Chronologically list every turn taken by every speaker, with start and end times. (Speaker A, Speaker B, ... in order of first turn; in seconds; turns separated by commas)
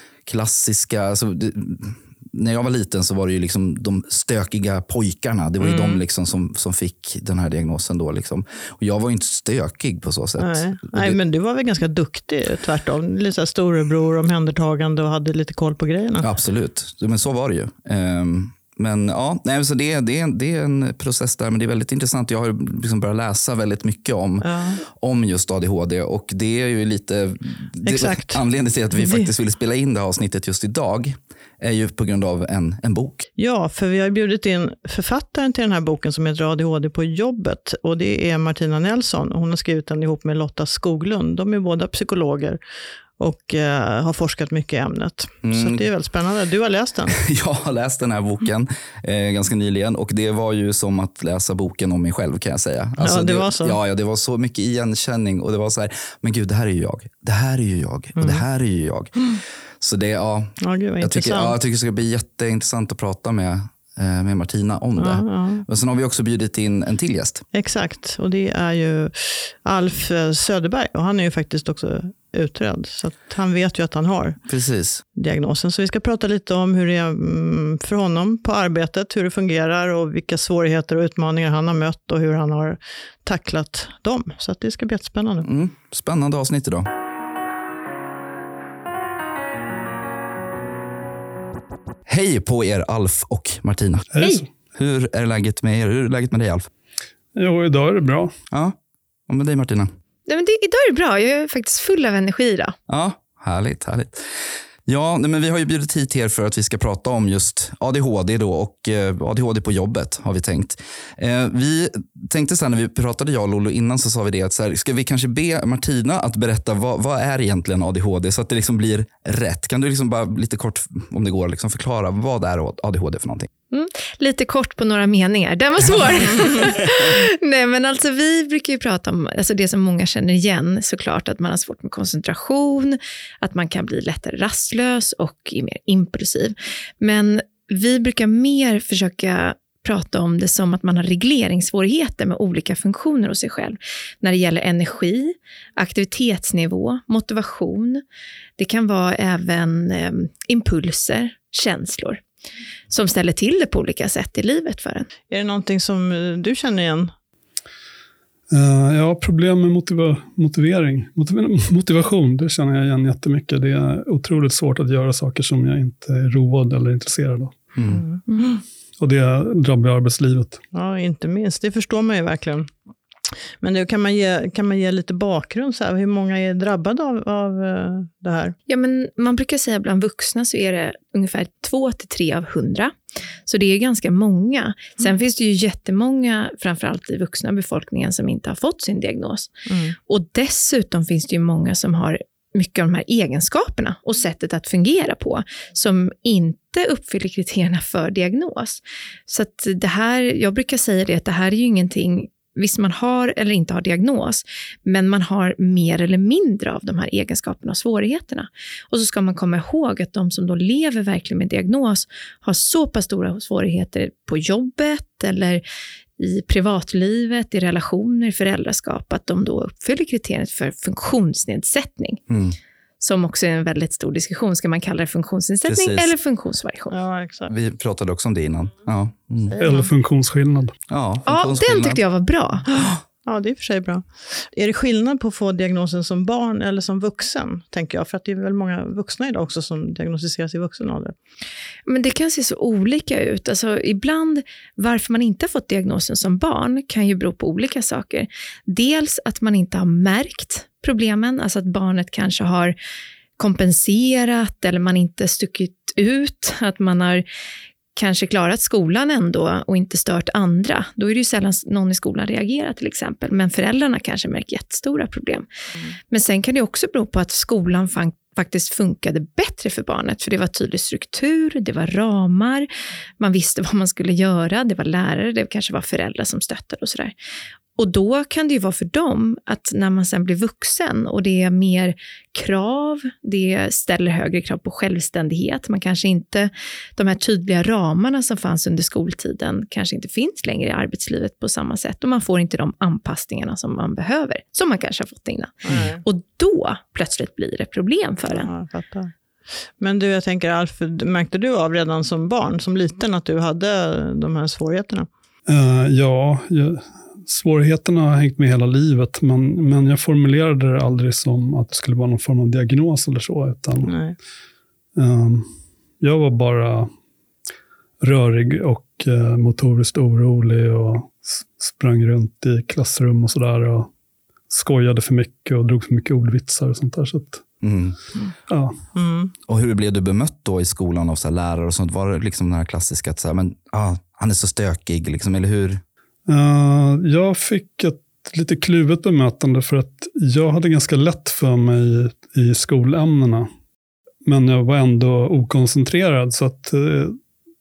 Speaker A: 0.2-11.2, Speaker B: 5.6-6.0, Speaker B: 10.4-16.3, Speaker A: 16.2-33.2, Speaker B: 24.4-24.8, Speaker B: 27.8-28.4, Speaker B: 28.9-29.3, Speaker B: 33.4-42.6, Speaker B: 43.2-47.1, Speaker A: 45.4-45.9, Speaker A: 47.1-67.5, Speaker B: 53.0-53.8, Speaker B: 58.2-58.4, Speaker B: 60.6-61.5, Speaker B: 65.0-65.6, Speaker B: 67.5-74.4, Speaker A: 74.5-75.0, Speaker B: 75.1-85.5, Speaker A: 85.4-86.9, Speaker A: 92.0-94.1, Speaker C: 94.1-94.4, Speaker A: 94.7-96.7, Speaker C: 97.3-98.3, Speaker A: 98.5-98.8, Speaker A: 99.3-99.9, Speaker D: 100.3-102.7, Speaker A: 102.9-123.5, Speaker D: 123.7-148.0, Speaker D: 148.6-152.2, Speaker D: 152.9-155.1, Speaker B: 155.3-157.1, Speaker C: 158.5-167.6, Speaker A: 167.7-168.0, Speaker B: 167.9-168.5, Speaker C: 169.0-170.6, Speaker B: 170.7-172.7, Speaker B: 173.6-178.6, Speaker D: 178.7-182.9, Speaker D: 183.4-189.5, Speaker B: 189.7-189.9, Speaker D: 190.1-215.6, Speaker D: 216.2-222.2, Speaker A: 222.3-222.6, Speaker D: 223.0-226.9, Speaker A: 225.7-226.1, Speaker B: 226.9-227.5, Speaker A: 227.5-229.5, Speaker B: 229.5-229.9, Speaker C: 229.6-230.7, Speaker A: 230.9-232.0, Speaker D: 231.3-232.7, Speaker B: 232.8-241.1, Speaker D: 241.9-252.7, Speaker D: 253.4-257.2, Speaker D: 257.9-265.4, Speaker D: 266.1-272.7, Speaker D: 273.2-277.1, Speaker D: 277.8-298.5, Speaker B: 295.6-296.0, Speaker B: 298.3-299.1, Speaker B: 299.8-305.1, Speaker C: 305.5-313.9, Speaker B: 313.8-314.1, Speaker C: 314.9-315.5, Speaker C: 316.0-316.9, Speaker C: 318.0-323.9, Speaker C: 324.5-327.4, Speaker A: 327.6-328.0, Speaker C: 328.5-328.8, Speaker B: 328.9-329.3, Speaker A: 329.5-335.8, Speaker C: 336.3-343.5, Speaker C: 344.2-347.2